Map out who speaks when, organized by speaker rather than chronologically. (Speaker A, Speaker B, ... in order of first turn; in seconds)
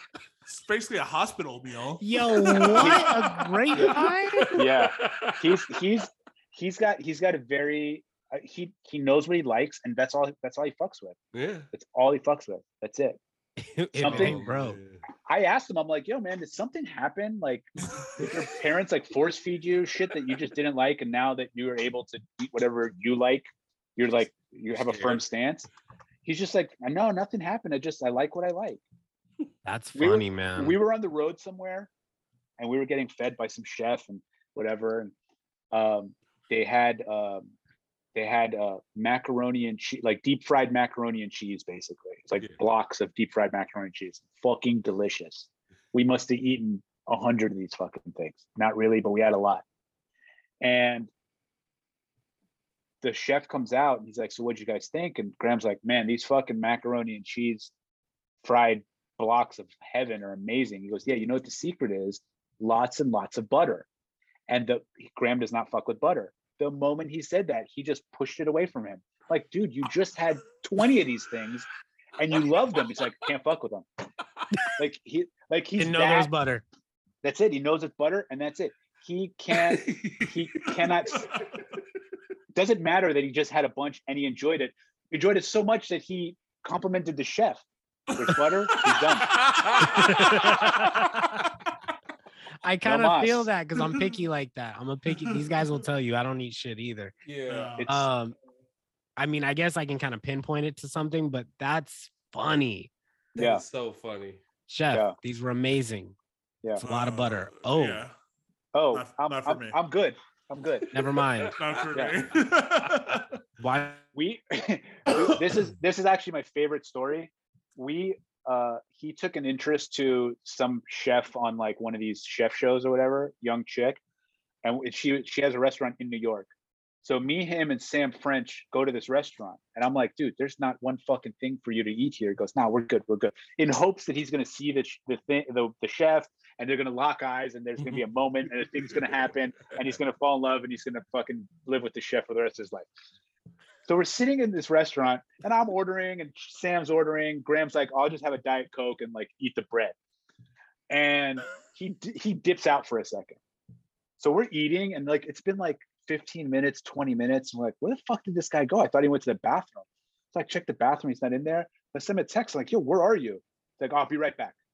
Speaker A: 0.4-4.0, 81.3-81.5, 89.8-91.2, 95.2-95.6, 97.5-97.8, 106.8-108.1, 108.9-109.8, 111.5-113.4, 115.1-115.5
Speaker B: 2.0-4.5, 13.6-14.8, 29.6-30.8, 75.8-76.6, 89.8-91.4, 92.6-97.1, 97.8-98.3, 99.2-102.9, 104.7-106.1, 106.8-108.0, 110.9-111.6, 113.6-114.0
Speaker C: 2.3-3.1, 3.7-5.7, 11.3-11.7, 14.0-15.0, 24.9-25.2, 79.5-80.3, 89.3-90.7, 97.2-97.8, 103.3-104.4, 110.8-112.0
Speaker D: 2.8-3.1, 4.5-11.2, 11.7-13.2, 14.0-14.4, 15.2-25.7, 26.2-28.8, 29.9-31.9, 32.6-35.1, 35.7-37.5, 38.1-49.6, 50.6-51.1, 53.0-57.7, 58.4-63.9, 64.5-71.7, 72.2-73.8, 74.8-76.3, 77.2-81.3, 82.5-89.3, 92.8-93.5, 97.8-98.1, 103.4-103.6, 108.7-110.9, 114.1-124.0, 124.6-126.5, 127.0-142.8, 143.8-149.9, 150.9-153.4, 154.2-164.6